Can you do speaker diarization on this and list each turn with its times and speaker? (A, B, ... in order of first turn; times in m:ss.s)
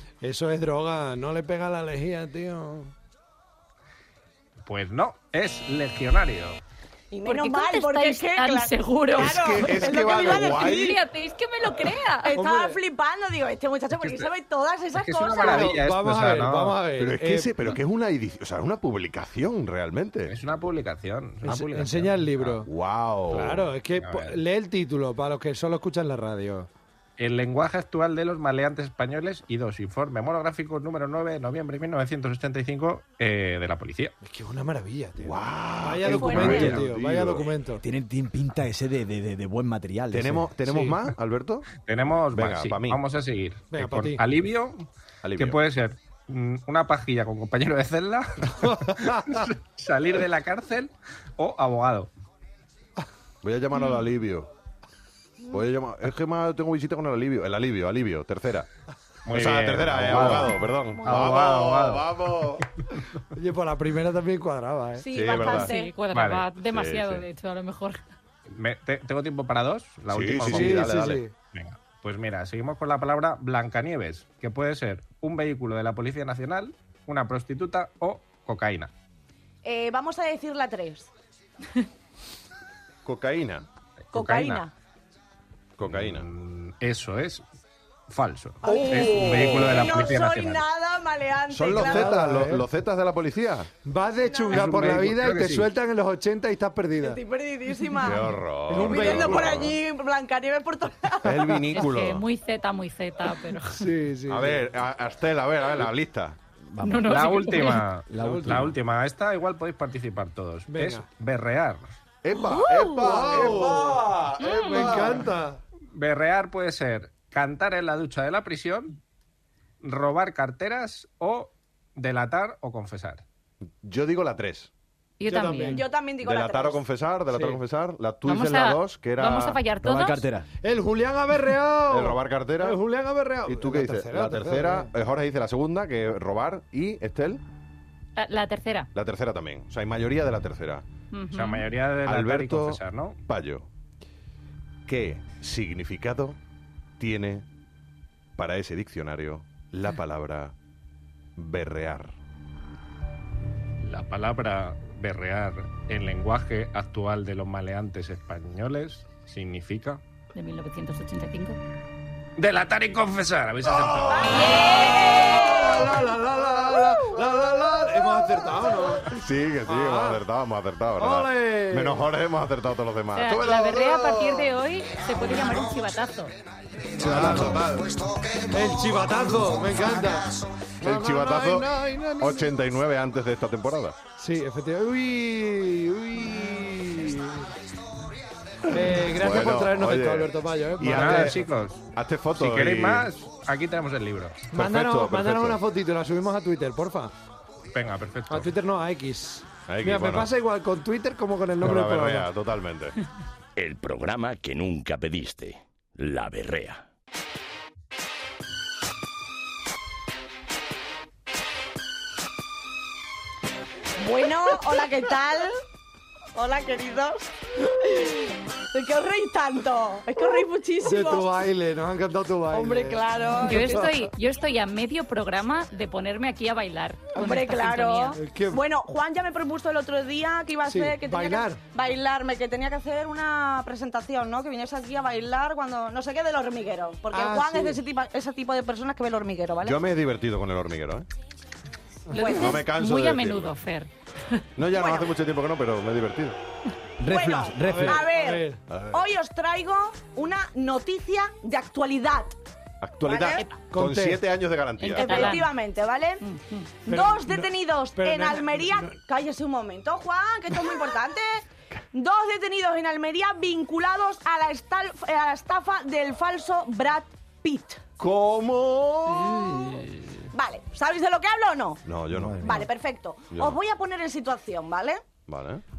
0:00.2-0:02.9 A
0:04.6-0:06.6 B
0:07.1-0:11.0 C
0:07.2-0:12.4 D
0:09.2-0:11.0 E
0:12.2-0:15.8 C
0:12.3-0:12.8 A
0:13.9-0:14.3 B
0:14.9-0:16.8 B
0:15.4-0:17.8 A
0:17.0-0:20.3 E
0:20.3-0:22.6 B
0:21.4-0:22.7 A
0:22.6-0:23.7 E
0:23.3-0:26.7 A
0:24.0-0:24.4 B
0:27.2-0:34.1 B
0:34.2-0:37.8 A
0:35.2-0:37.5 E
0:36.1-0:36.8 C
0:36.1-0:36.8 F
0:37.8-0:40.5 F
0:40.1-0:41.7 E
0:40.6-0:41.0 A
0:41.8-0:44.8 B
0:42.3-0:43.0 E
0:43.7-0:44.2 A
0:45.2-0:45.6 E
0:45.4-0:52.1 B
0:48.6-0:49.4 A
0:53.4-0:54.5 E
0:53.8-0:54.0 D
0:55.5-0:58.7 E
0:59.3-1:02.6 B
0:59.3-1:02.7 E
1:01.0-1:01.3 C
1:03.3-1:05.0 A
1:05.0-1:05.9 C
1:05.1-1:05.7 E
1:05.3-1:08.0 D
1:06.1-1:06.4 B
1:06.6-1:07.2 E
1:08.5-1:10.9 B
1:10.1-1:11.2 E
1:10.4-1:11.3 A
1:11.5-1:18.9 B
1:19.6-1:21.1 C
1:23.0-1:23.7 E
1:24.1-1:24.7 B
1:24.1-1:24.7 C
1:25.8-1:26.2 E
1:25.8-1:27.4 B
1:28.1-1:30.6 B
1:28.6-1:32.2 C
1:28.6-1:30.1 E
1:31.5-1:33.7 E
1:31.6-1:32.6 A
1:33.8-1:37.2 A
1:34.3-1:34.7 C
1:34.5-1:35.7 B
1:37.0-1:41.5 C
1:38.0-1:39.8 E
1:38.7-1:39.6 A
1:41.2-1:42.2 E
1:41.7-1:43.8 D
1:43.6-1:44.6 A
1:44.3-1:46.4 E
1:46.6-1:47.2 F
1:46.8-1:47.8 D
1:47.1-1:51.8 B
1:48.1-1:48.8 F
1:48.2-1:48.7 A
1:50.7-1:51.0 A
1:52.2-1:55.3 E
1:52.4-1:55.6 A
1:52.5-1:53.0 D
1:54.4-1:54.9 D
1:55.9-1:59.0 B
1:59.8-2:03.2 B
2:03.8-2:04.7 E
2:05.2-2:05.8 D
2:05.2-2:05.8 A
2:05.7-2:06.8 C
2:06.2-2:09.6 E
2:07.3-2:07.6 A
2:08.2-2:10.2 D
2:09.8-2:10.5 F
2:10.6-2:14.9 A
2:11.9-2:12.8 E
2:13.4-2:17.4 E
2:18.2-2:18.9 D
2:18.9-2:20.8 E
2:21.1-2:21.7 D
2:21.3-2:23.2 B
2:22.0-2:23.7 E
2:24.9-2:26.4 E
2:27.0-2:27.4 E
2:28.4-2:30.5 E
2:31.4-2:32.1 E
2:33.8-2:40.0 B
2:40.3-2:41.6 D
2:42.4-2:44.5 B
2:44.2-2:50.2 A
2:44.2-2:45.8 C
2:44.3-2:45.1 E
2:45.6-2:46.0 E
2:49.1-2:54.5 E
2:51.0-2:52.1 A
2:53.1-2:56.3 D
2:57.0-2:57.6 F
2:57.0-2:58.0 E
2:57.0-2:57.7 A
2:58.5-3:02.5 A
3:00.8-3:04.0 E
3:04.2-3:07.5 A
3:08.7-3:11.4 A
3:08.7-3:13.1 E
3:10.9-3:14.5 B
3:14.5-3:15.6 E
3:14.5-3:17.1 A
3:17.7-3:18.5 B
3:18.3-3:22.3 A
3:19.7-3:20.3 E
3:21.6-3:23.0 E
3:23.6-3:26.8 G
3:34.0-3:35.6 C
3:36.3-3:41.3 C
3:40.8-3:44.0 A
3:42.5-3:44.0 C
3:43.4-3:48.2 D
3:47.1-3:59.8 C
3:48.2-3:48.6 A
3:50.6-3:51.6 A
3:57.1-3:57.8 A
3:59.6-4:01.1 E
4:02.1-4:04.4 D
4:02.2-4:02.6 C
4:02.3-4:03.5 E
4:04.6-4:06.4 E
4:04.7-4:05.1 C
4:07.0-4:08.1 F
4:07.0-4:12.3 C
4:07.5-4:08.6 A
4:08.7-4:09.0 E
4:12.8-4:15.4 E
4:13.0-4:13.4 C
4:13.7-4:14.2 A
4:14.8-4:15.5 D
4:14.9-4:16.2 C
4:16.2-4:16.7 D
4:16.8-4:27.8 C
4:16.8-4:19.0 A
4:28.0-4:29.8 E
4:30.3-4:31.8 C
4:31.8-4:32.7 E
4:32.4-4:35.1 C
4:33.3-4:33.6 E
4:35.3-4:35.6 E